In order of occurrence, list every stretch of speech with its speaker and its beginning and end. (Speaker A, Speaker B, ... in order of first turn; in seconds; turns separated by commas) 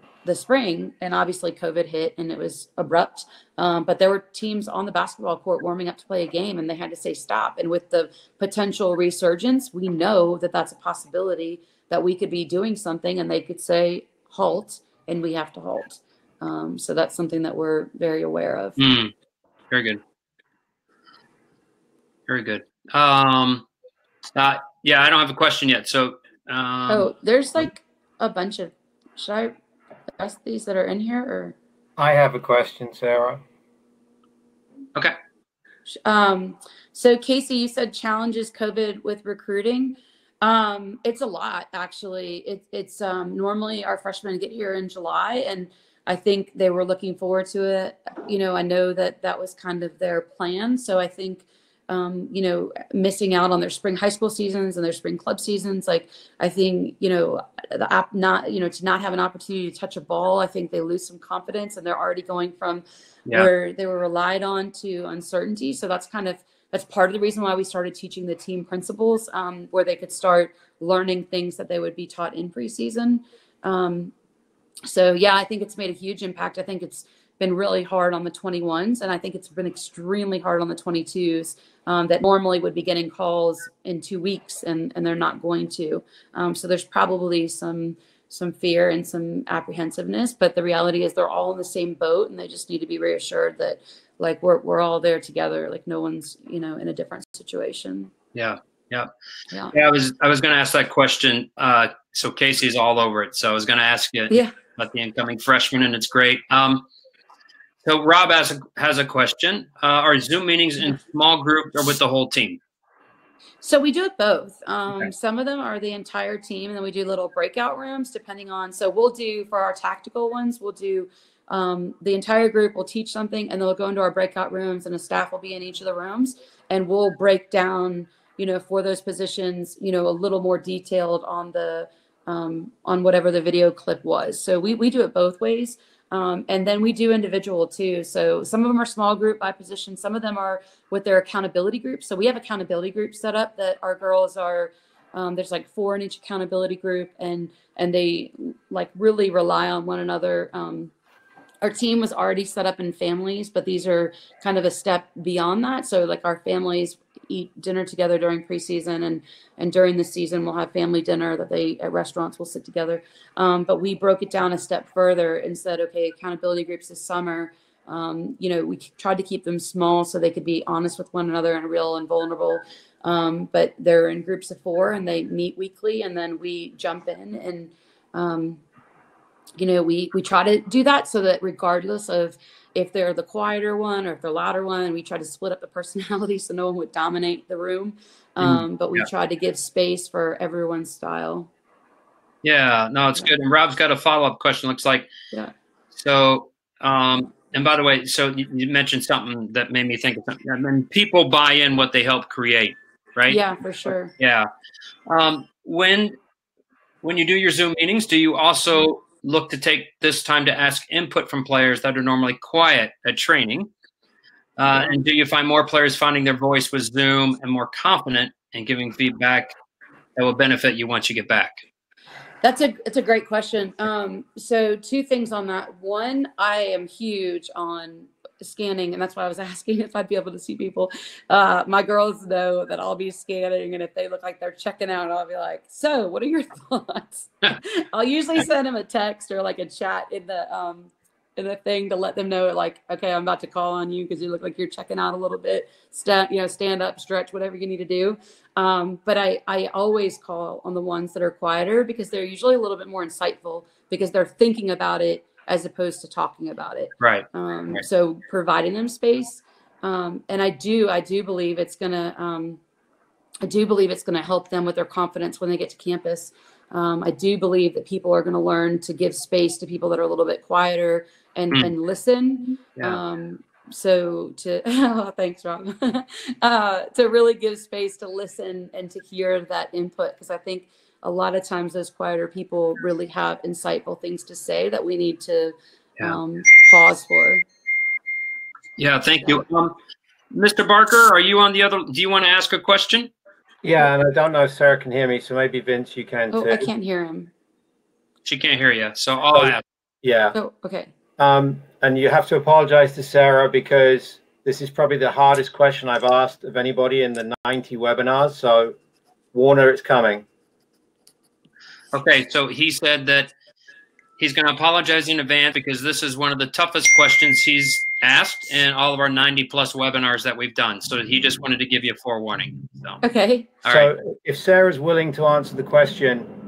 Speaker A: 0.2-18.9, Speaker B: 18.8-19.1, Speaker B: 19.7-20.0, Speaker B: 22.3-23.6, Speaker B: 24.3-27.1, Speaker A: 26.9-29.5, Speaker A: 30.2-31.6, Speaker C: 32.0-33.4, Speaker A: 35.9-74.1, Speaker A: 74.9-98.1, Speaker B: 98.3-99.1, Speaker B: 99.7-106.9, Speaker B: 107.8-112.6, Speaker A: 113.6-150.9, Speaker A: 151.6-178.6, Speaker A: 179.6-191.5, Speaker B: 188.4-189.0, Speaker B: 192.4-195.1, Speaker B: 195.9-204.5, Speaker A: 203.3-204.1, Speaker B: 205.1-206.2, Speaker B: 207.0-213.7, Speaker B: 214.6-219.5, Speaker A: 214.7-215.0, Speaker B: 220.2-221.6, Speaker A: 222.4-262.6, Speaker B: 257.0-257.8, Speaker A: 263.4-287.4, Speaker B: 288.8-289.8, Speaker B: 290.3-293.1, Speaker C: 293.6-296.7, Speaker A: 296.3-297.3, Speaker B: 298.2-299.6, Speaker C: 299.3-300.3, Speaker A: 300.3-300.9, Speaker C: 301.2-308.7, Speaker C: 309.3-310.2, Speaker B: 311.9-313.3, Speaker B: 314.2-323.0, Speaker A: 323.0-323.5, Speaker B: 323.6-323.9, Speaker C: 323.6-326.3